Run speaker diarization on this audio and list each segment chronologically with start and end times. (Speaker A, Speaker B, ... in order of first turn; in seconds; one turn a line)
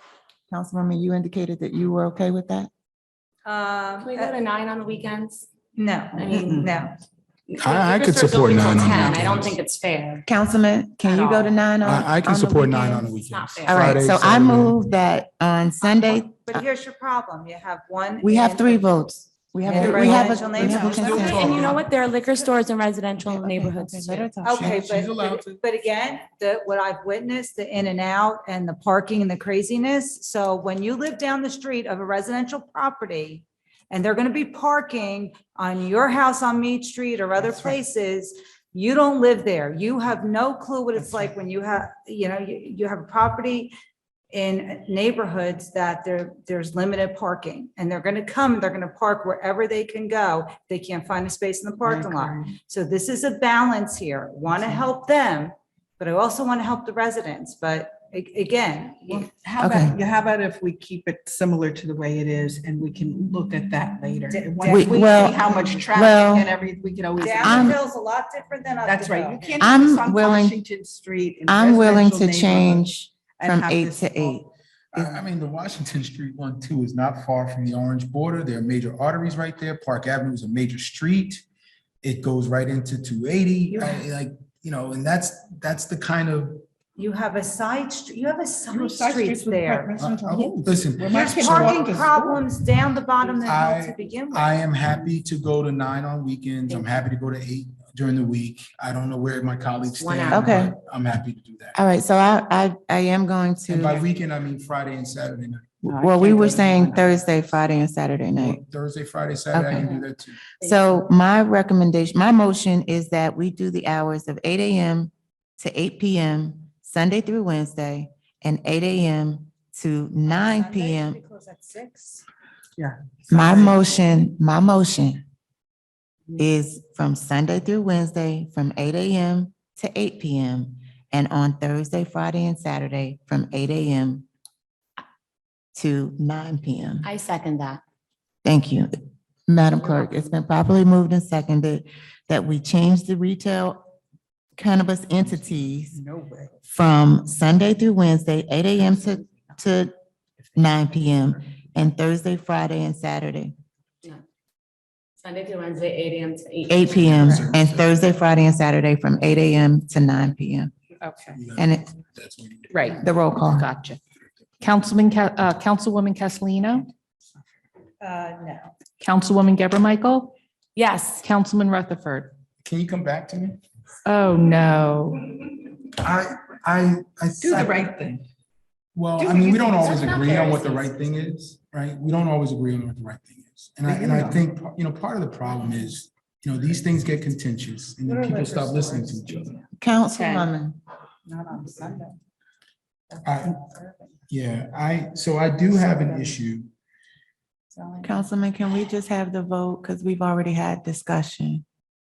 Speaker A: 0.5-2.7
Speaker B: 3.4-4.3
Speaker C: 4.0-5.5
Speaker B: 5.8-6.9
Speaker C: 6.2-6.7
Speaker C: 7.5-10.2
Speaker D: 7.6-9.6
Speaker A: 10.2-13.1
Speaker C: 11.0-11.6
Speaker D: 11.8-14.8
Speaker C: 13.3-13.8
Speaker A: 13.7-16.6
Speaker B: 15.8-18.9
Speaker A: 18.2-21.5
Speaker B: 19.6-21.7
Speaker D: 20.6-21.8
Speaker C: 21.0-24.3
Speaker A: 23.2-24.9
Speaker B: 24.4-43.7
Speaker D: 24.5-25.6
Speaker B: 44.3-59.3
Speaker E: 51.8-52.5
Speaker E: 59.1-67.8
Speaker A: 59.6-60.0
Speaker B: 64.3-65.8
Speaker A: 64.6-66.5
Speaker B: 67.2-69.5
Speaker A: 67.4-67.8
Speaker E: 68.8-74.4
Speaker A: 69.6-70.6
Speaker A: 71.5-75.2
Speaker D: 74.9-81.4
Speaker D: 82.0-86.6
Speaker B: 83.7-84.0
Speaker B: 87.0-89.9
Speaker E: 88.7-92.5
Speaker D: 90.0-91.8
Speaker B: 91.1-94.5
Speaker D: 93.4-101.8
Speaker C: 96.7-97.0
Speaker C: 100.0-100.6
Speaker A: 100.3-100.7
Speaker A: 101.7-104.0
Speaker D: 103.7-105.8
Speaker A: 105.8-108.6
Speaker E: 105.9-106.9
Speaker D: 108.3-110.4
Speaker A: 109.5-109.9
Speaker C: 109.7-110.0
Speaker C: 110.6-111.0
Speaker A: 110.6-121.2
Speaker B: 120.2-122.2
Speaker E: 122.8-123.8
Speaker A: 123.3-125.2
Speaker A: 126.4-134.2
Speaker A: 135.7-137.1
Speaker C: 137.0-137.8
Speaker A: 138.4-138.9
Speaker A: 139.5-143.8
Speaker A: 144.6-146.0
Speaker E: 146.1-146.5
Speaker A: 146.7-149.9
Speaker A: 150.5-153.5
Speaker C: 155.2-157.4
Speaker A: 156.7-160.7
Speaker D: 156.9-158.1
Speaker F: 161.0-161.4
Speaker D: 161.3-162.9
Speaker A: 161.6-161.8
Speaker F: 162.7-164.0
Speaker A: 162.9-163.7
Speaker F: 164.6-166.9
Speaker B: 168.0-168.7
Speaker F: 169.0-170.3
Speaker C: 170.8-171.2
Speaker F: 171.2-172.3
Speaker D: 172.6-173.6
Speaker F: 174.0-175.4
Speaker D: 176.0-178.1
Speaker E: 177.4-178.2
Speaker D: 178.9-189.6
Speaker E: 179.2-180.6
Speaker C: 179.8-180.8
Speaker E: 183.8-184.4
Speaker B: 188.1-189.6
Speaker A: 189.8-190.8
Speaker B: 190.2-190.5
Speaker B: 191.2-192.2
Speaker B: 193.1-194.1
Speaker D: 193.2-193.6
Speaker D: 194.3-196.7
Speaker B: 195.7-196.4
Speaker B: 197.7-198.2
Speaker A: 198.0-201.6